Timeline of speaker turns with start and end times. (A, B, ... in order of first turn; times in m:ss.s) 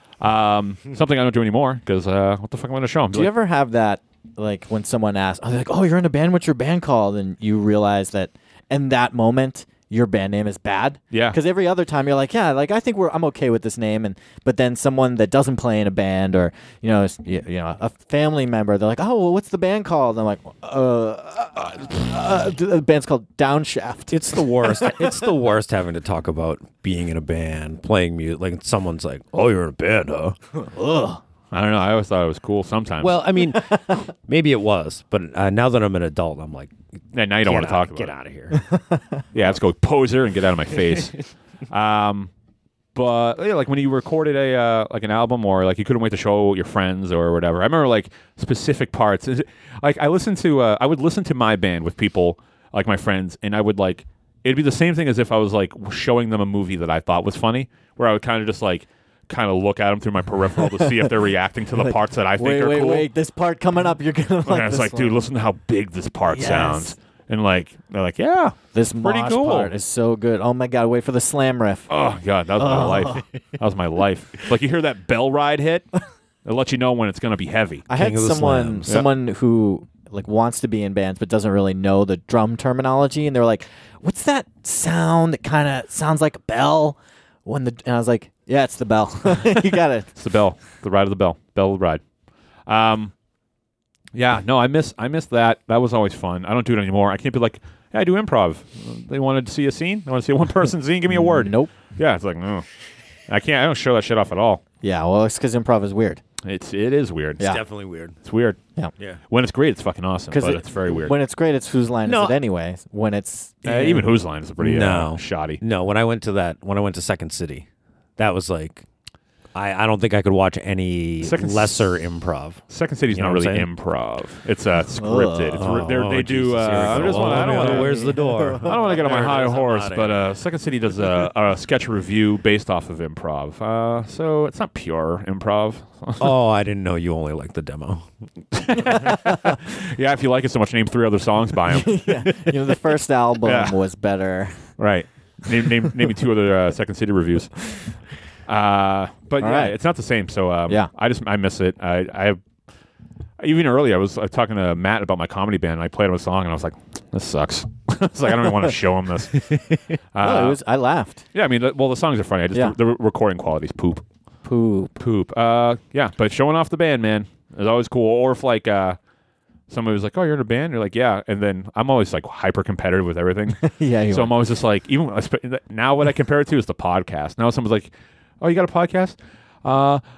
0:00.2-0:03.3 A
0:03.1-0:25.2 B
0:11.1-0:11.4 A
0:24.1-0:30.4 C
0:30.6-0:31.2 B
0:31.5-0:33.2 A
0:33.0-0:36.8 C
0:33.6-0:34.0 B
0:37.1-0:38.1 A
0:37.4-0:38.6 C
0:38.5-0:39.2 B
0:39.3-0:42.3 A
0:43.0-1:03.1 A
1:00.6-1:01.1 B
1:01.8-1:05.2 B
1:04.4-1:09.7 A
1:06.3-1:07.0 B
1:08.7-1:11.9 B
1:11.9-1:15.9 A
1:12.6-1:13.2 B
1:16.4-1:17.9 A
1:17.9-1:30.1 B
1:17.9-1:19.0 C
1:30.2-1:32.0 A
1:32.7-1:33.1 A
1:34.1-1:42.7 A
1:41.1-1:41.7 B
1:43.3-1:44.6 A
1:44.8-1:46.2 B
1:46.4-1:47.6 A
1:47.4-1:48.2 C
1:48.2-1:48.6 A
1:49.3-1:51.1 A
1:50.3-1:54.1 B
1:52.0-1:52.4 C
1:53.6-1:55.6 A
1:54.6-1:57.7 C
1:58.2-1:58.8 C
1:59.6-2:03.7 C
2:01.2-2:01.9 A
2:02.7-2:16.3 A
2:05.0-2:05.7 B
2:05.6-2:10.2 C
2:07.0-2:08.7 B
2:16.2-2:18.1 C
2:18.6-2:22.4 A
2:18.8-2:19.6 B
2:21.7-2:24.6 B
2:23.4-2:23.8 A
2:24.8-2:27.6 A
2:28.5-2:32.4 A
2:29.4-2:29.8 B
2:33.4-2:39.5 A
2:40.1-2:40.6 A
2:40.2-2:41.2 B
2:41.3-2:44.0 A
2:44.4-2:45.0 B
2:45.0-2:49.0 A
2:49.7-3:00.0 A
2:53.6-2:54.3 B